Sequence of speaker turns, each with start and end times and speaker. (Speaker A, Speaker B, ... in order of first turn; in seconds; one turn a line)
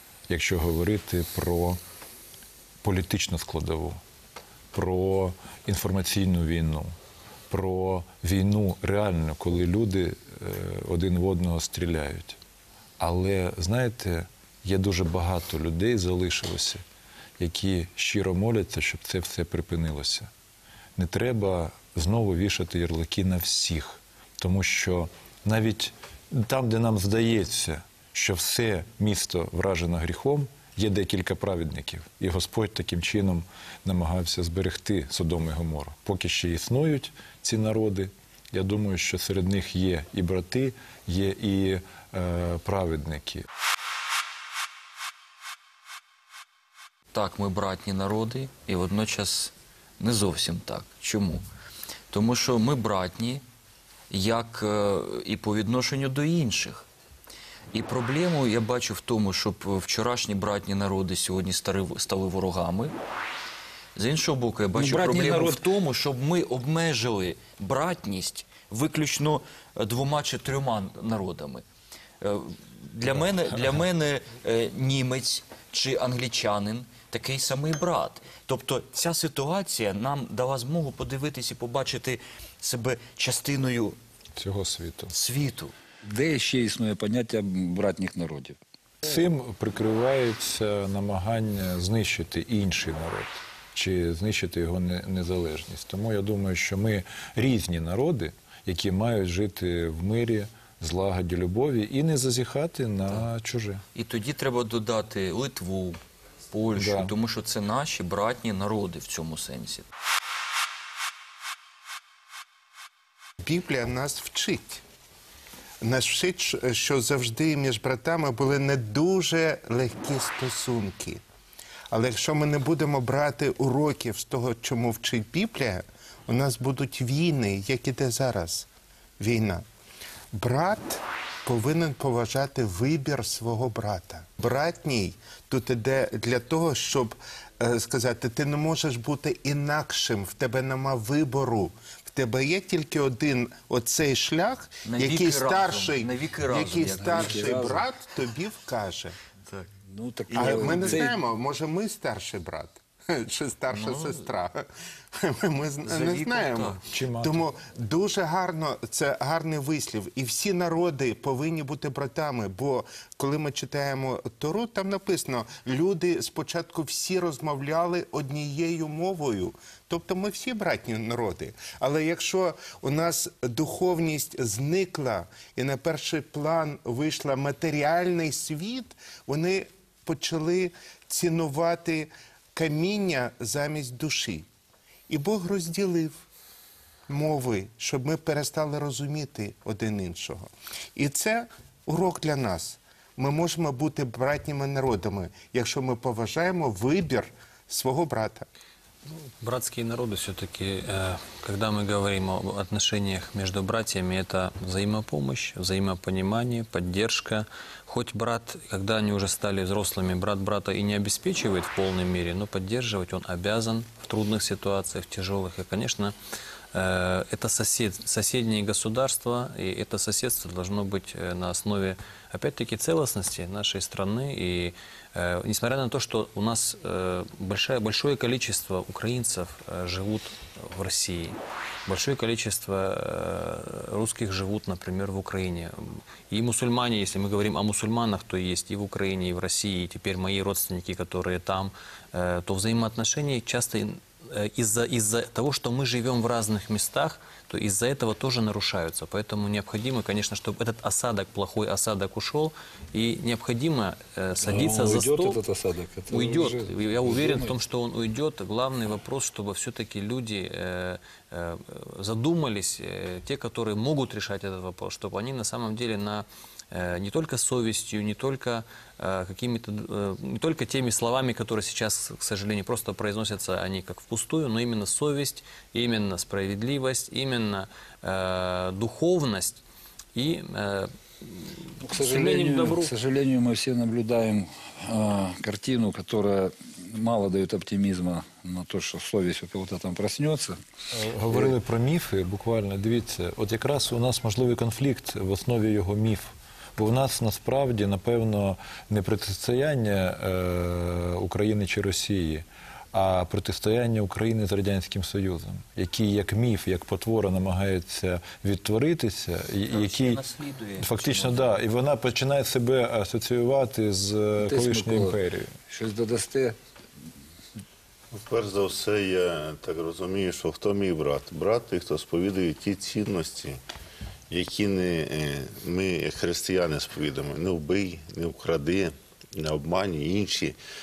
Speaker A: 0.3-1.8
Speaker A: 2.8-4.0
Speaker A: 4.7-7.0
Speaker A: 7.5-12.4
Speaker A: 13.0-16.8
Speaker A: 17.4-20.3
Speaker A: 21.0-43.5
Speaker B: 47.1-51.4
Speaker B: 52.1-53.4
Speaker B: 54.1-56.9
Speaker B: 57.7-62.9
Speaker B: 64.0-71.7
Speaker C: 64.7-65.7
Speaker B: 72.2-84.0
Speaker A: 84.4-85.1
Speaker B: 85.1-85.7
Speaker C: 86.0-88.6
Speaker A: 89.0-103.8
Speaker B: 103.9-106.0
Speaker B: 106.5-109.9
Speaker A: 106.8-107.1
Speaker D: 113.4-114.8
Speaker D: 115.8-121.2
Speaker D: 121.9-128.7
Speaker D: 129.2-129.7
Speaker D: 130.3-149.2
Speaker B: 144.8-147.5
Speaker C: 147.0-147.9
Speaker C: 149.8-151.1
Speaker B: 150.3-151.1
Speaker D: 150.3-184.5
Speaker B: 153.7-154.3
Speaker B: 155.8-156.8
Speaker A: 156.9-157.4
Speaker D: 185.1-186.2
Speaker D: 187.1-198.5
Speaker E: 199.1-216.2
Speaker E: 216.7-255.4
Speaker C: 254.4-257.6
Speaker E: 256.1-279.6
Speaker E: 280.1-282.9
Speaker C: 281.8-290.6
Speaker A: 290.9-310.2
Speaker B: 309.7-311.6
Speaker A: 310.8-315.6
Speaker C: 314.4-316.6
Speaker F: 318.1-323.6
Speaker F: 324.3-330.6